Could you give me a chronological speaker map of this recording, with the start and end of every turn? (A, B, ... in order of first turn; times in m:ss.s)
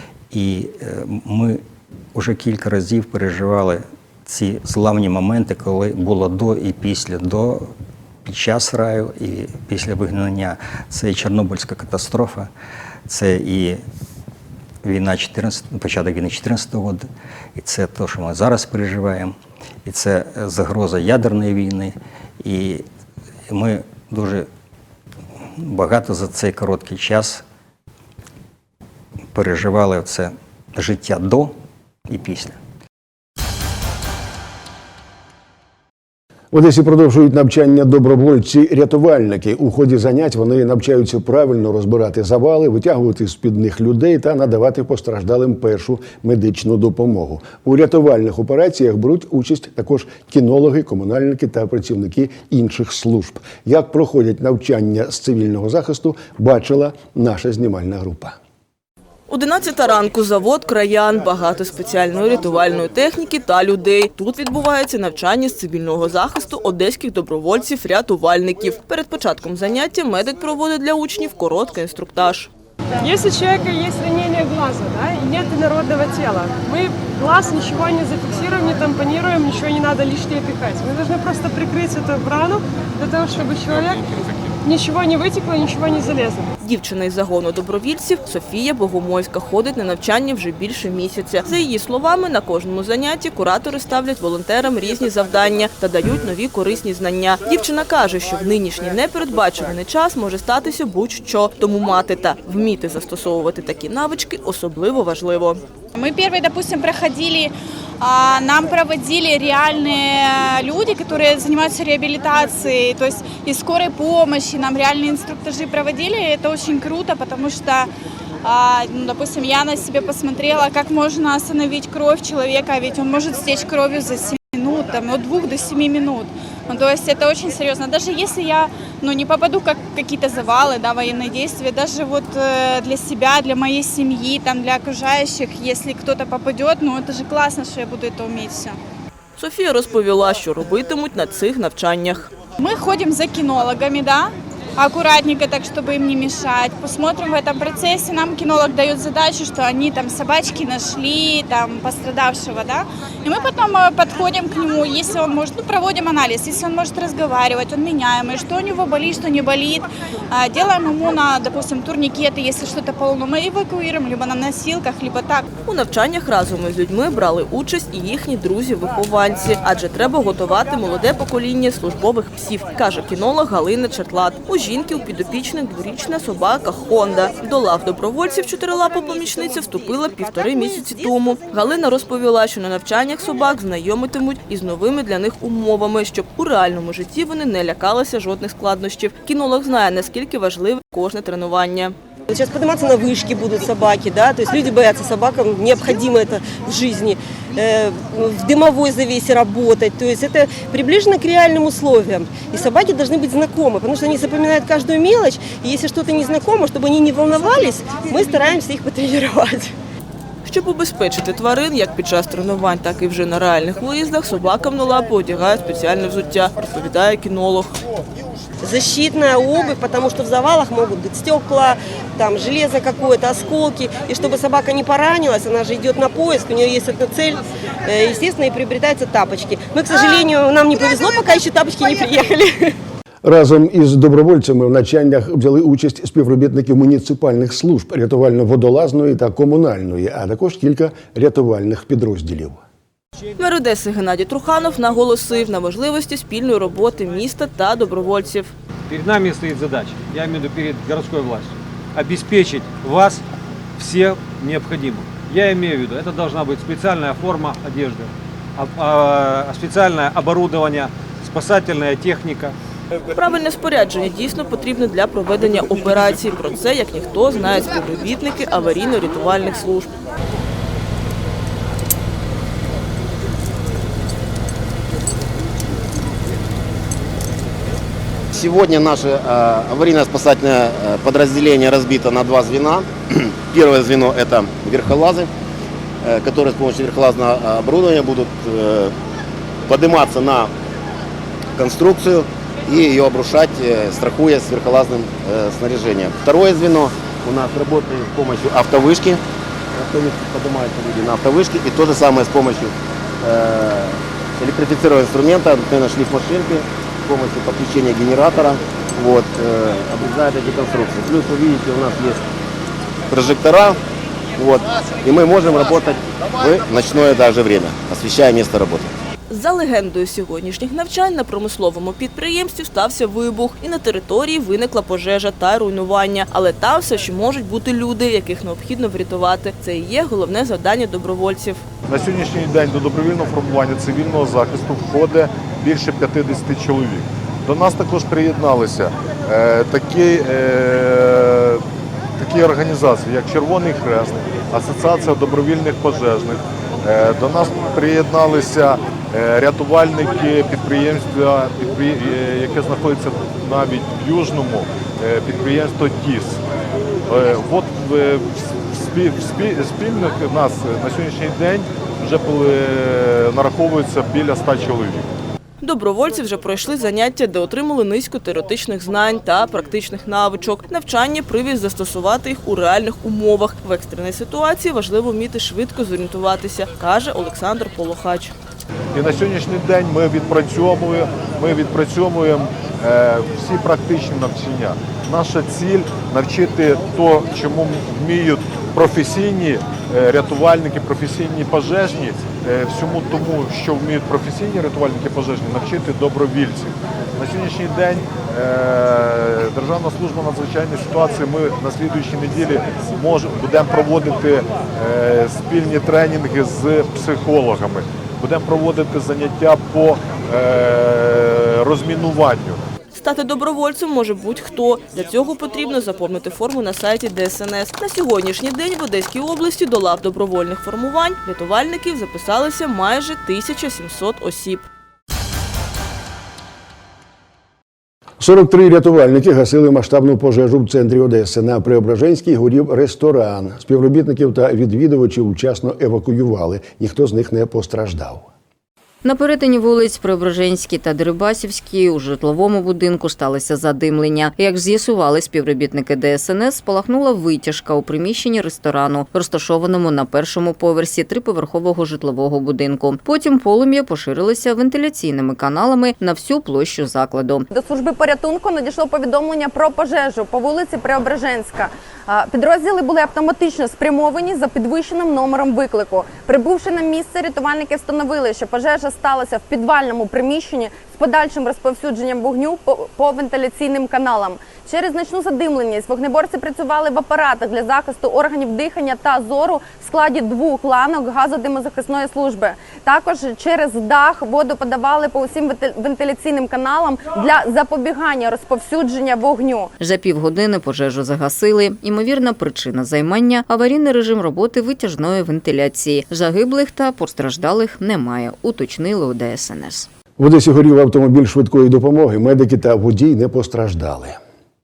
0:00.3-0:01.6 A
0:02.1-0:07.7 A
0:08.2-0:12.5 A
0:13.1-0:13.8 A
0:14.8-0:19.3 A
0:19.8-0:22.8 A
0:23.5-0:24.5 A
0:25.6-0:27.4 A
0:29.3-0:31.6 A
0:32.1-0:32.6 A
0:36.5-0:58.4 B
0:59.3-1:12.5 C
1:13.0-1:24.0 D
1:24.6-1:26.4 D
1:26.6-1:45.6 C
1:45.9-1:57.9 E
1:58.4-2:18.8 E
2:19.4-2:22.3 C
2:22.6-2:45.4 E
2:45.6-3:11.9 C
3:12.3-3:29.7 F
3:30.4-3:37.8 C
3:38.6-3:52.7 F
3:53.2-4:02.6 B
4:03.4-4:08.5 C
4:08.9-4:13.2 G
4:13.8-4:22.5 G
4:23.1-4:29.9 C
4:38.3-4:45.3 H
4:46.0-4:48.9 H
4:49.7-4:50.5 H
4:51.6-4:59.2 H
4:59.7-5:12.2 H
5:13.1-5:13.8 H
5:14.3-5:18.9 H
5:19.3-5:31.6 C
5:31.9-5:41.6 I
5:42.2-5:56.4 I
5:57.1-6:05.1 I
6:05.6-6:18.3 C
6:18.9-6:52.6 I
6:52.9-7:04.6 C
7:08.2-7:18.3 B
7:19.0-7:37.5 J
7:37.5-8:09.7 K
8:09.8-8:19.9 J
8:20.2-8:24.2 B